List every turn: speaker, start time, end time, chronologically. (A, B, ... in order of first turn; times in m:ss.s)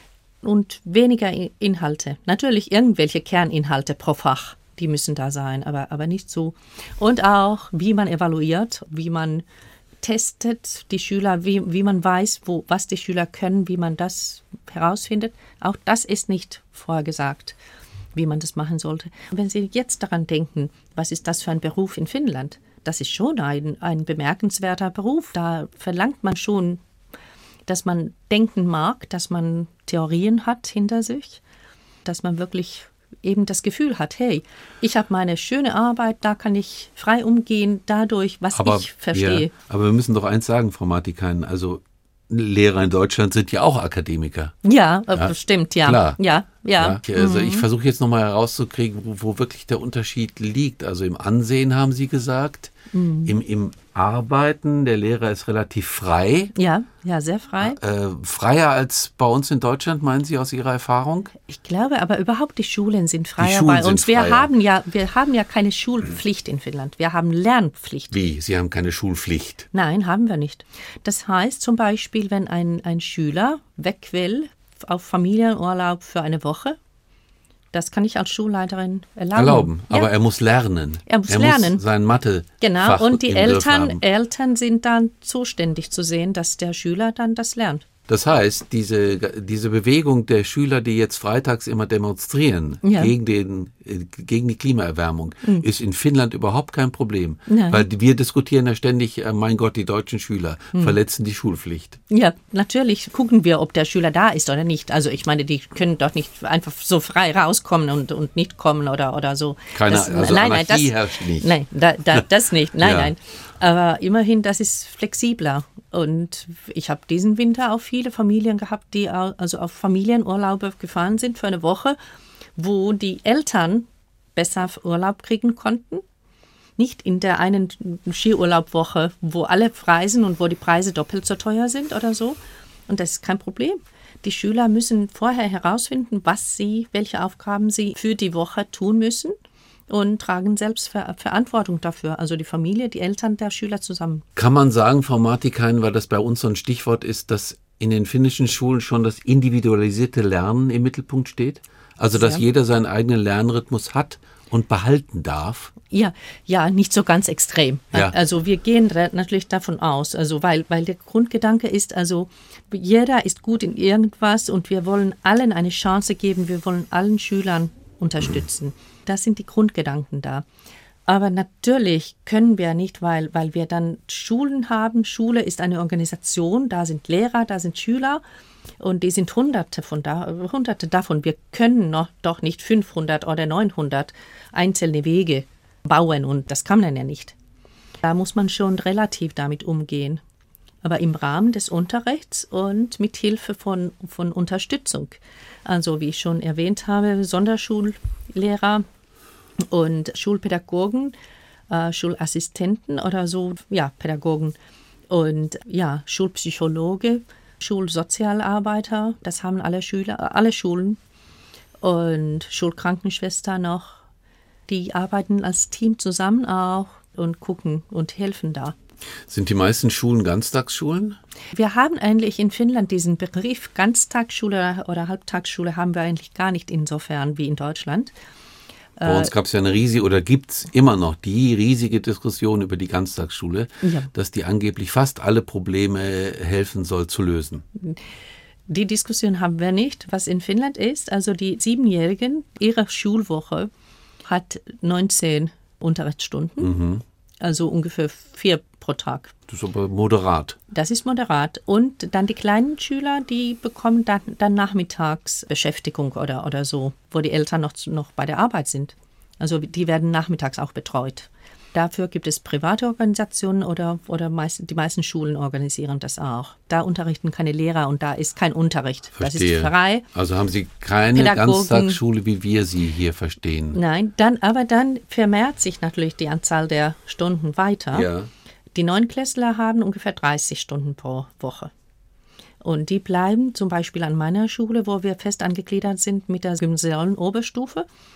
0:00.4-0:09.4 A
0:10.0-0:17.6 A
0:18.1-0:26.8 A
0:27.7-0:31.4 A
0:32.0-0:39.5 A
0:38.5-0:44.5 B
0:44.6-0:47.6 A
0:45.1-0:46.2 B
0:46.8-0:52.7 B
0:52.9-0:53.3 A
0:53.2-0:56.5 B
0:56.6-0:57.8 A
0:57.6-1:01.3 B
1:01.4-1:08.1 A
1:03.4-1:04.5 B
1:08.1-1:09.7 B
1:09.7-1:16.8 A
1:17.7-1:20.1 A
1:19.3-1:24.0 B
1:21.1-1:21.8 A
1:22.6-1:27.8 A
1:28.1-1:42.0 B
1:32.8-1:33.1 A
1:37.5-1:37.8 A
1:42.1-2:02.0 A
1:49.7-1:51.5 B
1:52.8-1:53.1 B
2:02.6-2:06.0 A
2:06.8-2:12.4 A
2:12.9-2:19.3 A
2:19.9-2:24.2 A
2:24.4-2:35.7 B
2:32.2-2:32.4 A
2:35.9-2:50.4 A
2:51.1-2:58.2 A
2:58.8-3:07.4 A
3:08.0-3:10.2 A
3:10.8-3:18.8 A
3:19.6-3:21.1 A
3:21.7-3:24.6 A
3:25.1-3:31.0 A
3:31.8-3:34.0 A
3:34.7-3:38.8 A
3:39.3-3:41.2 B
3:41.5-3:48.1 A
3:49.0-3:49.3 A
3:49.0-3:57.6 B
3:53.8-3:54.1 A
3:58.7-4:03.7 A
4:04.2-4:06.7 A
4:06.6-4:07.0 B
4:07.4-4:09.3 A
4:09.5-4:10.6 B
4:10.7-4:30.0 A
4:29.1-4:33.8 B
4:31.1-4:32.0 A
4:33.7-4:38.1 A
4:37.9-4:38.3 B
4:38.7-4:41.7 A
4:42.6-4:47.9 A